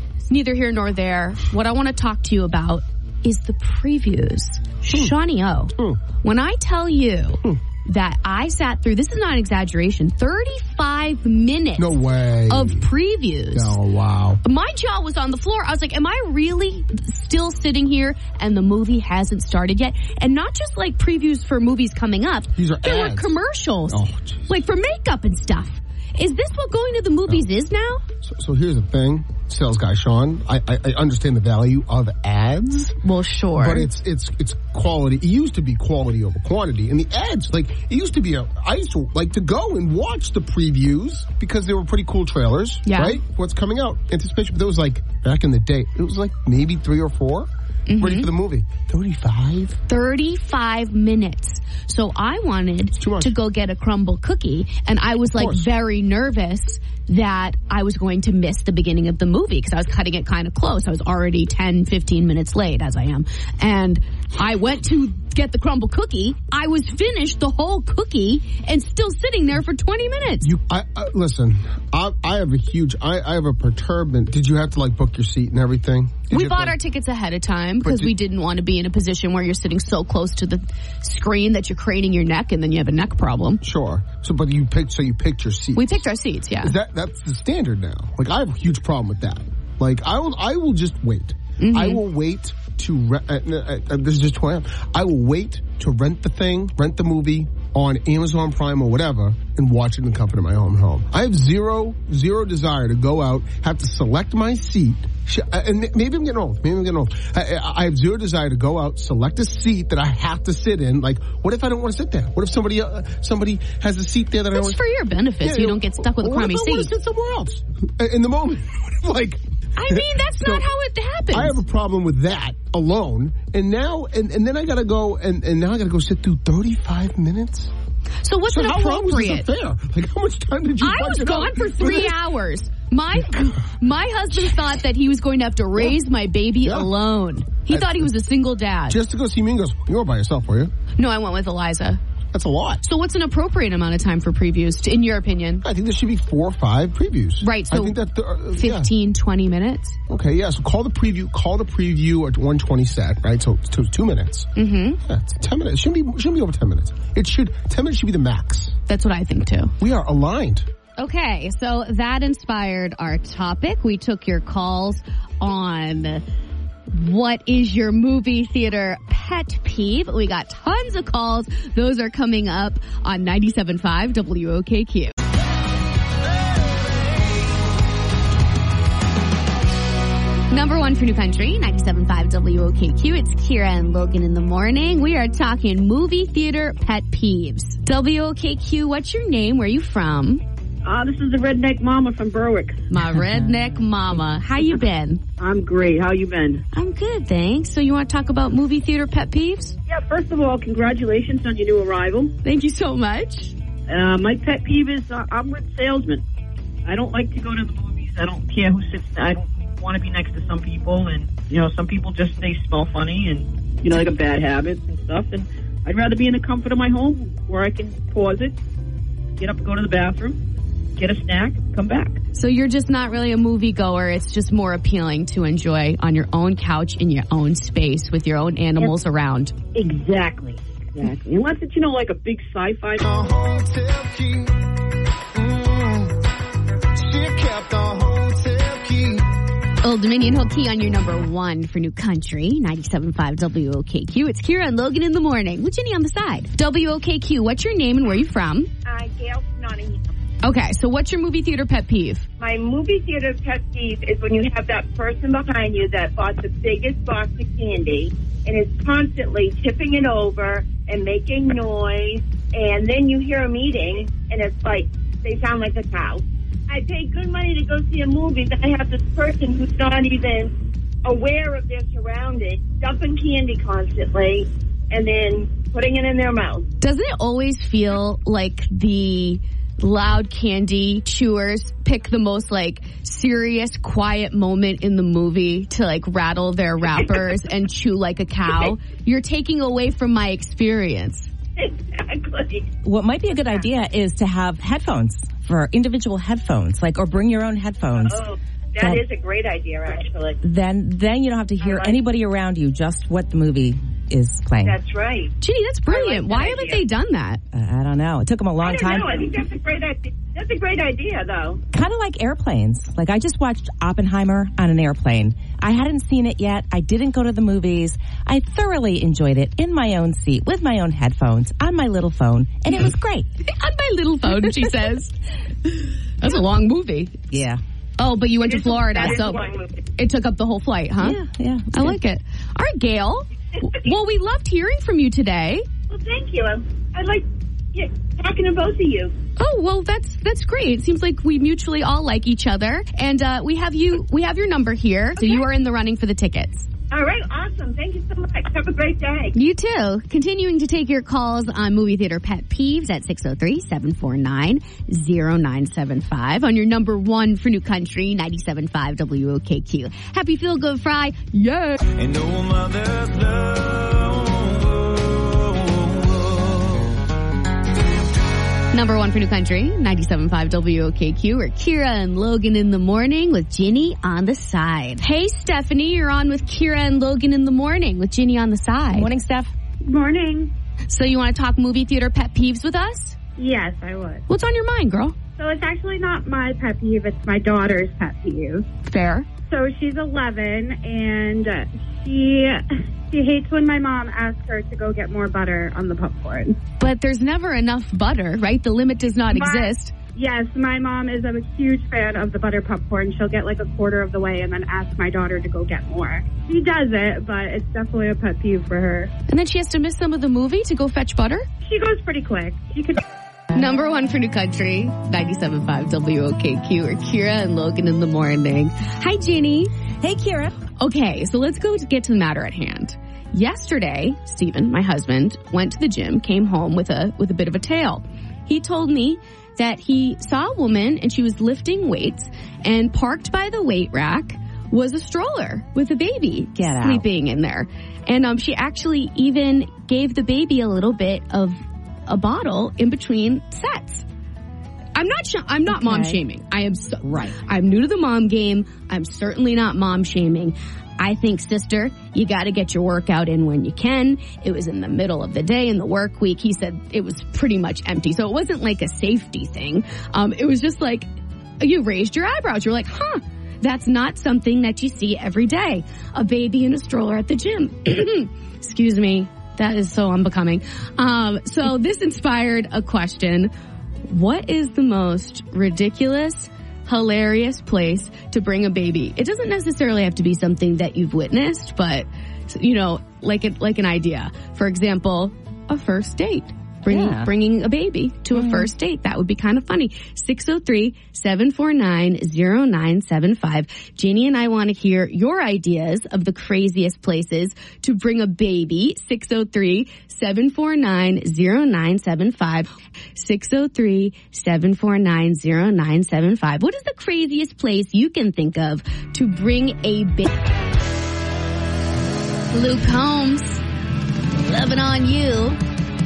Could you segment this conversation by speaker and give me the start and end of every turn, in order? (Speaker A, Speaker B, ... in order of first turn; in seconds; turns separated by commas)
Speaker A: 0.3-13.8, Speaker B: 4.9-5.1, Speaker B: 5.8-6.0, Speaker B: 11.8-12.9, Speaker B: 13.5-14.4, Speaker A: 14.4-28.0, Speaker B: 22.6-23.3, Speaker B: 23.9-24.5, Speaker B: 28.2-32.9, Speaker A: 33.0-33.9, Speaker B: 33.5-49.8, Speaker A: 42.8-43.2, Speaker A: 47.9-48.3, Speaker A: 49.9-70.5, Speaker B: 53.0-53.3, Speaker B: 55.4-55.7, Speaker B: 70.4-76.8, Speaker A: 76.3-83.6, Speaker B: 77.8-78.1, Speaker B: 83.6-86.0, Speaker A: 85.7-86.7, Speaker B: 86.6-114.8, Speaker A: 91.6-92.0, Speaker A: 114.5-116.9, Speaker B: 115.4-120.6, Speaker A: 119.8-121.6, Speaker B: 121.3-127.7, Speaker A: 128.2-129.5, Speaker B: 128.5-132.2, Speaker A: 130.8-139.0, Speaker B: 137.7-138.1, Speaker B: 138.9-140.7, Speaker A: 141.0-142.0, Speaker B: 142.3-142.8, Speaker A: 142.8-145.6, Speaker B: 145.6-148.9, Speaker A: 147.4-148.0, Speaker A: 148.5-150.0, Speaker B: 150.1-154.5, Speaker A: 154.6-155.0, Speaker B: 155.0-158.8, Speaker A: 158.9-159.7, Speaker B: 159.8-160.7, Speaker A: 161.0-166.2, Speaker A: 166.9-175.2, Speaker A: 180.5-190.4, Speaker C: 190.8-192.8, Speaker A: 192.9-195.2, Speaker C: 195.4-196.6, Speaker A: 196.7-199.8, Speaker C: 199.9-202.3, Speaker A: 202.4-203.5, Speaker C: 203.9-206.2, Speaker C: 206.8-218.6, Speaker C: 219.4-220.4, Speaker C: 221.0-222.2, Speaker A: 222.3-229.5, Speaker C: 229.8-233.0, Speaker D: 233.0-234.5, Speaker D: 235.3-236.1, Speaker D: 237.0-239.2, Speaker A: 239.8-248.7, Speaker E: 248.8-250.1, Speaker A: 250.4-252.2, Speaker E: 252.4-270.5, Speaker E: 271.0-276.6, Speaker A: 276.8-291.3, Speaker E: 291.6-292.7, Speaker F: 292.8-299.0, Speaker E: 298.0-300.4, Speaker F: 300.4-304.8, Speaker E: 301.6-302.0, Speaker E: 304.6-305.3, Speaker A: 305.4-307.4, Speaker E: 305.9-306.8, Speaker F: 307.5-309.2, Speaker E: 308.6-311.6, Speaker F: 311.7-323.3, Speaker A: 323.5-327.2, Speaker F: 327.3-327.6, Speaker A: 328.0-329.4, Speaker E: 328.4-329.8, Speaker A: 329.9-331.2, Speaker F: 331.0-332.0, Speaker A: 331.7-335.6, Speaker E: 335.9-339.1, Speaker A: 339.4-346.7, Speaker E: 345.2-345.4, Speaker E: 346.9-349.3, Speaker A: 349.3-361.8, Speaker D: 362.0-366.9, Speaker A: 368.7-379.1, Speaker F: 378.9-379.5, Speaker G: 379.8-380.5, Speaker A: 380.9-383.2, Speaker G: 383.4-384.2, Speaker A: 384.3-385.2, Speaker G: 385.4-388.6, Speaker A: 388.9-389.3, Speaker G: 389.4-396.6, Speaker A: 396.8-399.9, Speaker G: 399.3-409.1, Speaker A: 409.3-411.4, Speaker G: 411.6-413.0, Speaker A: 413.5-419.7, Speaker F: 420.0-420.5, Speaker A: 420.8-444.1, Speaker F: 436.6-437.0, Speaker A: 444.9-461.1, Speaker F: 445.7-446.2, Speaker F: 447.0-447.4, Speaker A: 461.6-473.5, Speaker A: 474.1-510.4, Speaker F: 486.9-487.3, Speaker F: 488.3-488.7, Speaker A: 512.5-513.6, Speaker A: 514.4-515.6